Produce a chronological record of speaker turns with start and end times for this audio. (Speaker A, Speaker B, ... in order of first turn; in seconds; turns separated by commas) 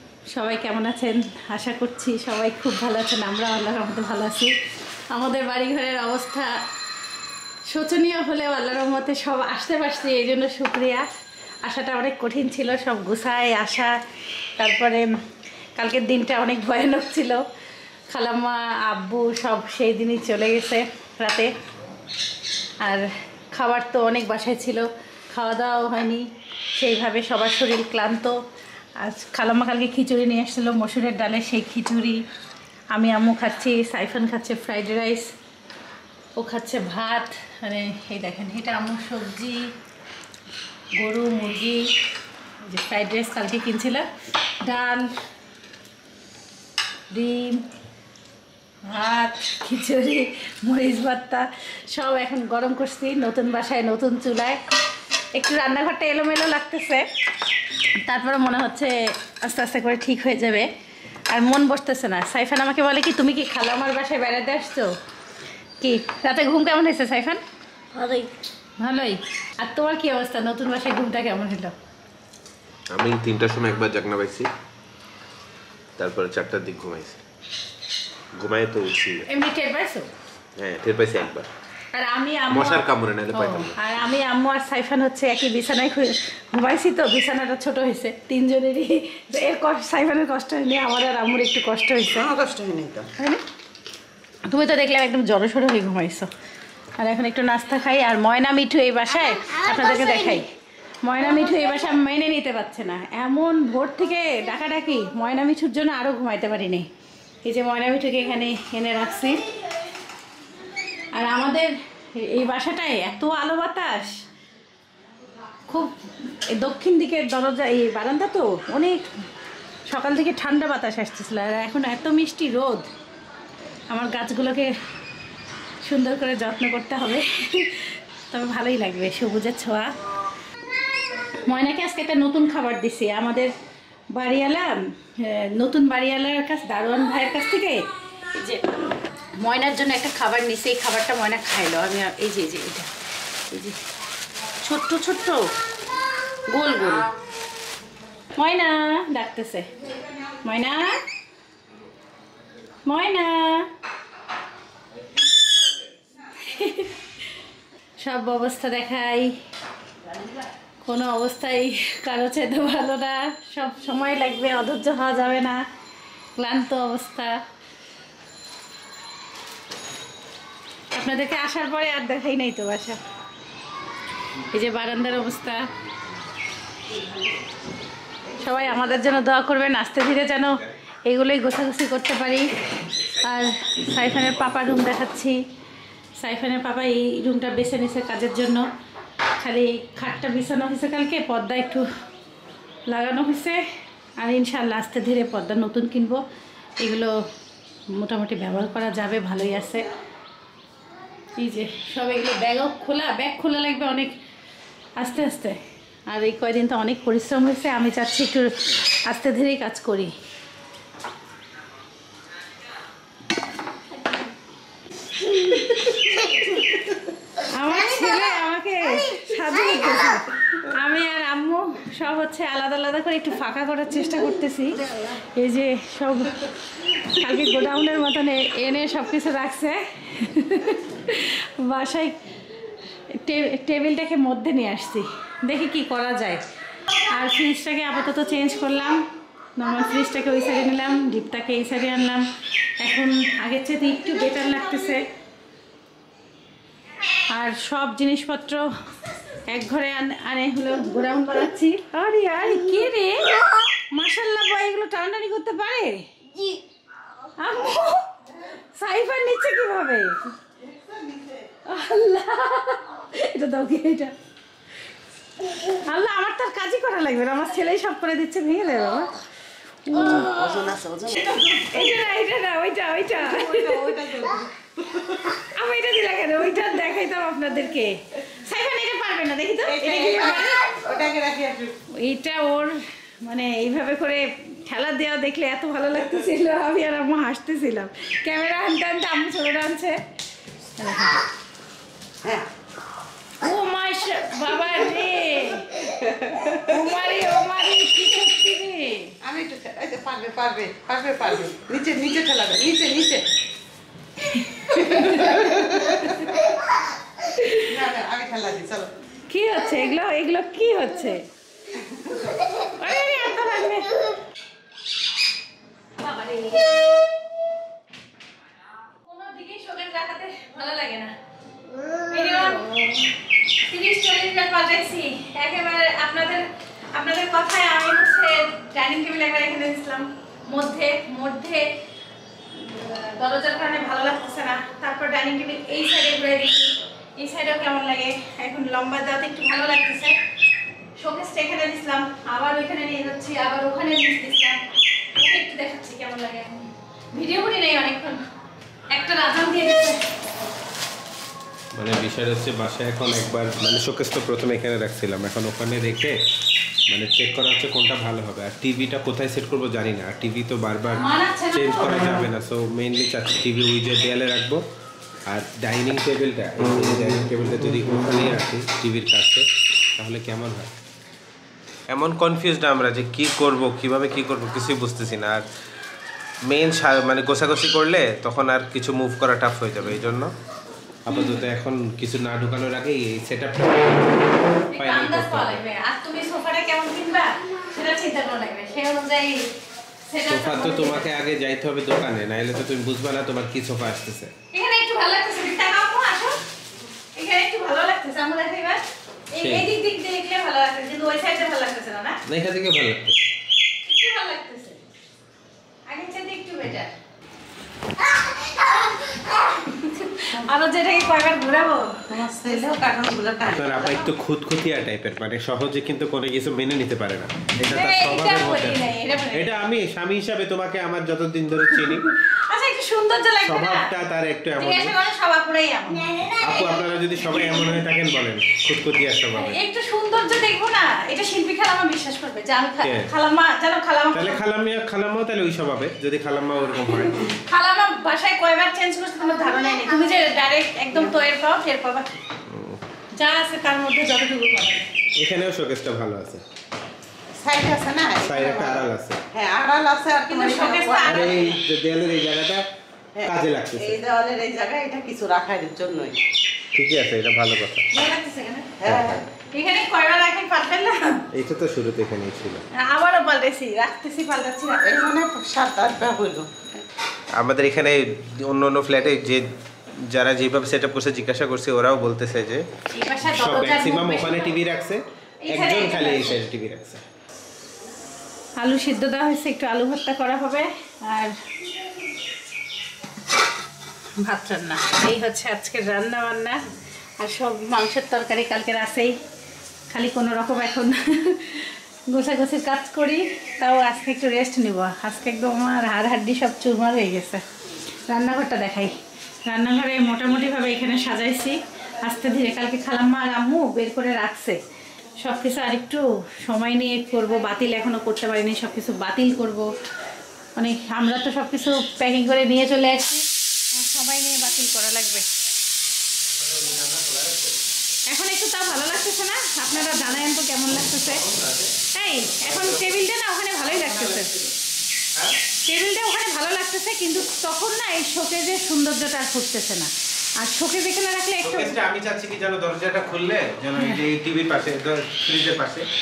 Speaker A: 0.3-4.5, Speaker A: 5.1-6.5, Speaker A: 7.7-11.1, Speaker A: 11.6-14.0, Speaker A: 14.6-15.2, Speaker A: 15.8-17.4, Speaker A: 18.1-21.5, Speaker A: 22.8-26.2, Speaker A: 26.8-28.4, Speaker A: 29.0-32.2, Speaker A: 32.9-35.3, Speaker A: 36.4-39.7, Speaker A: 41.0-41.9, Speaker A: 42.6-44.1, Speaker A: 44.6-45.1, Speaker A: 47.1-47.6, Speaker A: 48.9-54.6, Speaker A: 55.3-57.0, Speaker A: 58.0-60.7, Speaker A: 61.3-64.9, Speaker A: 65.8-67.4, Speaker B: 67.9-68.3, Speaker A: 68.8-71.7, Speaker C: 72.9-74.5, Speaker C: 76.0-77.2, Speaker C: 78.3-79.3, Speaker A: 79.3-80.1, Speaker C: 80.6-81.5, Speaker A: 81.9-92.3, Speaker C: 82.5-83.8, Speaker B: 92.1-93.1, Speaker A: 93.2-93.4, Speaker A: 94.5-96.3, Speaker A: 97.0-100.5, Speaker B: 99.6-100.4, Speaker A: 101.0-106.9, Speaker A: 107.4-109.5, Speaker A: 111.1-114.2, Speaker A: 115.7-119.0, Speaker A: 119.9-122.9, Speaker A: 123.9-124.7, Speaker A: 125.8-129.9, Speaker A: 131.4-133.5, Speaker A: 134.1-138.8, Speaker A: 139.3-142.9, Speaker A: 143.5-143.8, Speaker A: 144.6-145.5, Speaker A: 146.5-147.1, Speaker A: 148.3-149.7, Speaker A: 150.4-151.0, Speaker A: 152.8-153.7, Speaker A: 156.3-157.0, Speaker A: 158.0-159.3, Speaker A: 160.8-165.6, Speaker A: 166.3-167.4, Speaker A: 170.9-173.0, Speaker A: 174.4-175.7, Speaker A: 178.3-182.5, Speaker A: 183.1-185.4, Speaker A: 186.2-188.7, Speaker A: 189.4-191.9, Speaker A: 192.9-193.6, Speaker A: 194.2-196.2, Speaker A: 196.8-197.2, Speaker A: 197.9-199.9, Speaker A: 201.4-204.1, Speaker A: 205.0-210.1, Speaker A: 215.2-216.6, Speaker A: 217.4-232.2, Speaker A: 233.1-236.4, Speaker A: 236.9-239.0, Speaker A: 239.6-242.2, Speaker A: 242.8-245.0, Speaker A: 247.3-248.6, Speaker A: 249.5-253.3, Speaker A: 253.9-256.1, Speaker B: 256.3-256.6, Speaker A: 257.4-258.1, Speaker A: 258.8-260.2, Speaker B: 260.7-261.4, Speaker A: 261.6-264.1, Speaker A: 265.5-269.1, Speaker A: 269.8-274.0, Speaker B: 269.9-272.0, Speaker B: 273.1-275.3, Speaker A: 275.3-280.7, Speaker B: 279.6-281.8, Speaker A: 281.9-290.0, Speaker A: 290.8-291.2, Speaker A: 293.4-299.1, Speaker B: 296.0-296.5, Speaker B: 299.2-303.2, Speaker A: 304.2-306.4, Speaker B: 305.1-306.4, Speaker A: 307.3-307.8, Speaker B: 307.6-308.9, Speaker A: 309.3-311.2, Speaker B: 311.9-312.2, Speaker A: 312.5-314.1, Speaker A: 316.0-316.8, Speaker A: 319.0-321.1, Speaker B: 321.8-322.1, Speaker A: 322.0-323.0, Speaker A: 323.7-331.7, Speaker A: 332.5-340.1, Speaker A: 341.0-344.6, Speaker A: 345.1-348.2, Speaker A: 348.9-350.0, Speaker C: 351.8-356.1, Speaker C: 356.9-364.6, Speaker A: 361.0-362.2, Speaker C: 365.3-369.4, Speaker C: 370.0-370.7, Speaker C: 371.9-375.4, Speaker C: 376.5-380.3, Speaker C: 381.1-385.6, Speaker A: 381.1-381.5, Speaker A: 384.7-389.5, Speaker A: 390.1-391.1, Speaker C: 390.3-394.3, Speaker A: 394.5-396.4, Speaker A: 397.1-402.2, Speaker C: 399.4-399.7, Speaker C: 402.3-403.2, Speaker A: 403.8-404.8, Speaker A: 405.9-406.9, Speaker B: 408.1-409.2, Speaker A: 409.5-412.5, Speaker B: 412.1-414.0, Speaker C: 413.5-422.1, Speaker A: 417.7-419.5, Speaker A: 421.8-423.9, Speaker C: 423.4-424.9, Speaker A: 424.6-426.1, Speaker B: 426.1-426.5, Speaker C: 426.3-429.6, Speaker A: 426.7-427.8, Speaker A: 429.3-434.4, Speaker C: 432.8-433.1, Speaker C: 434.1-437.3, Speaker A: 436.9-442.2, Speaker C: 442.5-442.8, Speaker A: 443.1-444.9, Speaker C: 445.2-446.4, Speaker B: 447.3-451.6, Speaker C: 448.2-449.2, Speaker A: 450.2-451.5, Speaker C: 451.0-452.6, Speaker B: 453.1-456.2, Speaker C: 453.2-454.0, Speaker C: 456.8-457.9, Speaker A: 457.9-458.8, Speaker B: 458.8-459.2, Speaker C: 458.8-459.3, Speaker A: 459.4-461.2, Speaker C: 461.3-462.6, Speaker A: 462.8-465.1, Speaker B: 464.8-466.5, Speaker C: 467.4-469.5, Speaker C: 470.1-472.6, Speaker A: 472.9-474.5, Speaker C: 473.2-477.0, Speaker A: 475.4-476.4, Speaker A: 478.6-481.4, Speaker A: 484.2-486.6, Speaker A: 487.2-489.1, Speaker A: 489.9-497.4, Speaker A: 498.1-498.9, Speaker A: 499.4-504.6, Speaker A: 505.2-509.7, Speaker A: 510.6-515.3, Speaker C: 516.3-517.6, Speaker A: 518.1-521.2, Speaker C: 521.0-521.8, Speaker A: 521.9-524.3, Speaker C: 522.4-523.0, Speaker C: 523.7-524.5, Speaker A: 525.6-531.8, Speaker C: 531.4-535.9, Speaker A: 533.8-534.0